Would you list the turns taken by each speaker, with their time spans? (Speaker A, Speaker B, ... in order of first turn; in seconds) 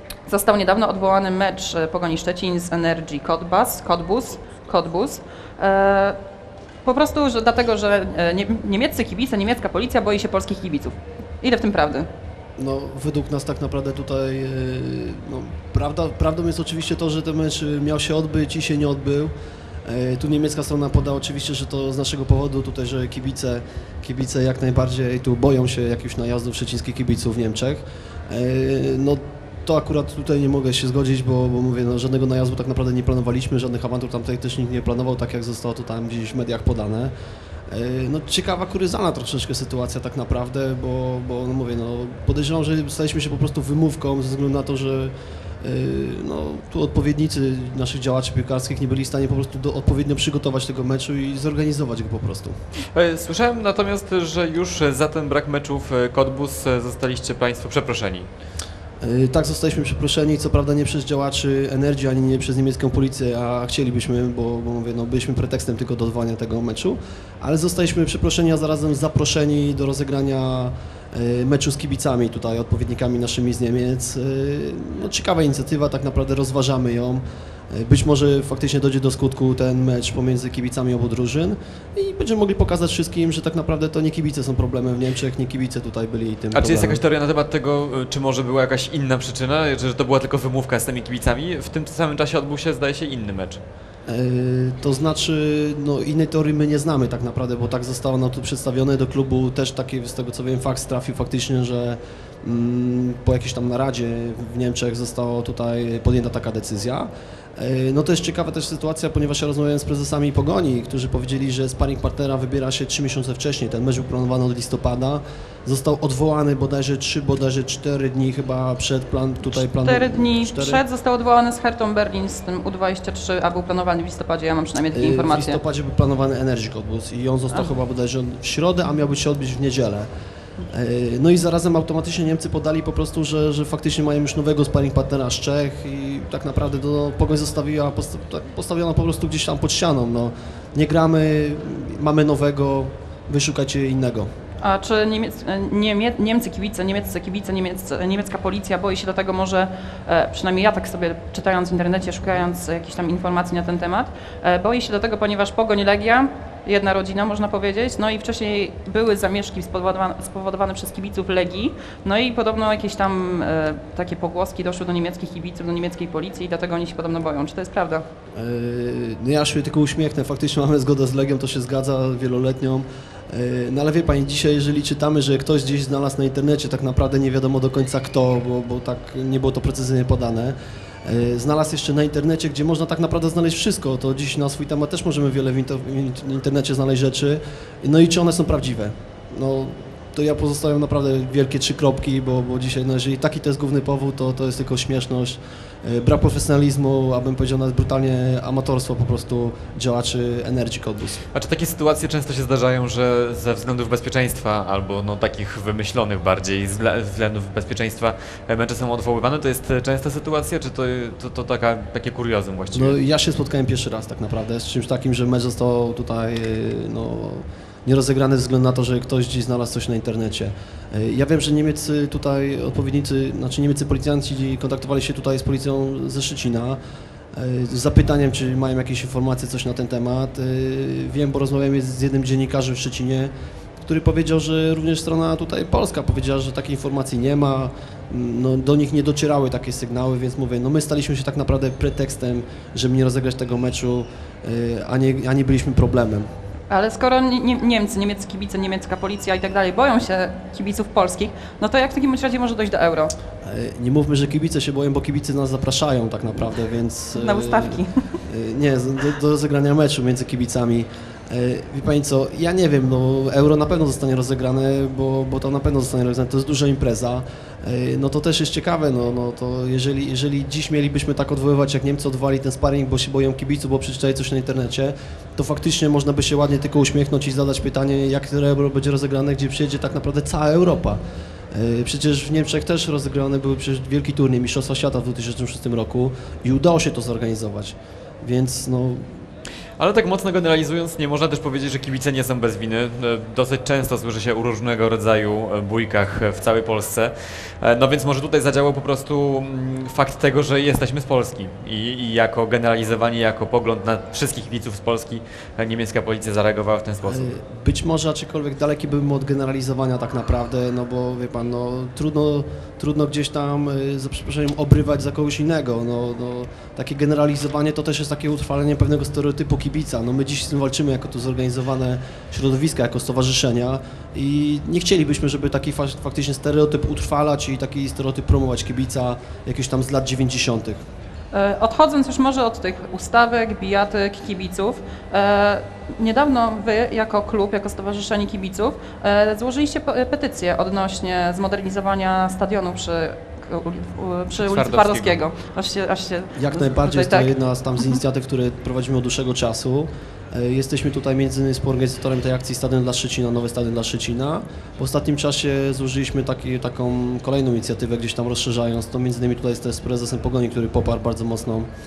Speaker A: 0.3-6.2, 6.8-12.1, 119.5-125.6, 144.6-168.1, 246.7-253.2, 257.1-258.2, 331.3-347.3
Speaker B: 12.6-19.3, 19.8-37.1, 37.7-52.6, 59.0-87.0, 94.1-120.8, 124.9-130.1, 130.7-144.3, 168.3-201.2, 212.7-226.8, 227.3-233.3, 233.8-246.3, 253.4-281.0, 281.5-289.2, 307.1-330.8, 346.4-361.7
Speaker C: 52.9-58.3, 86.5-93.6, 201.3-213.0, 289.8-307.3, 344.3-345.2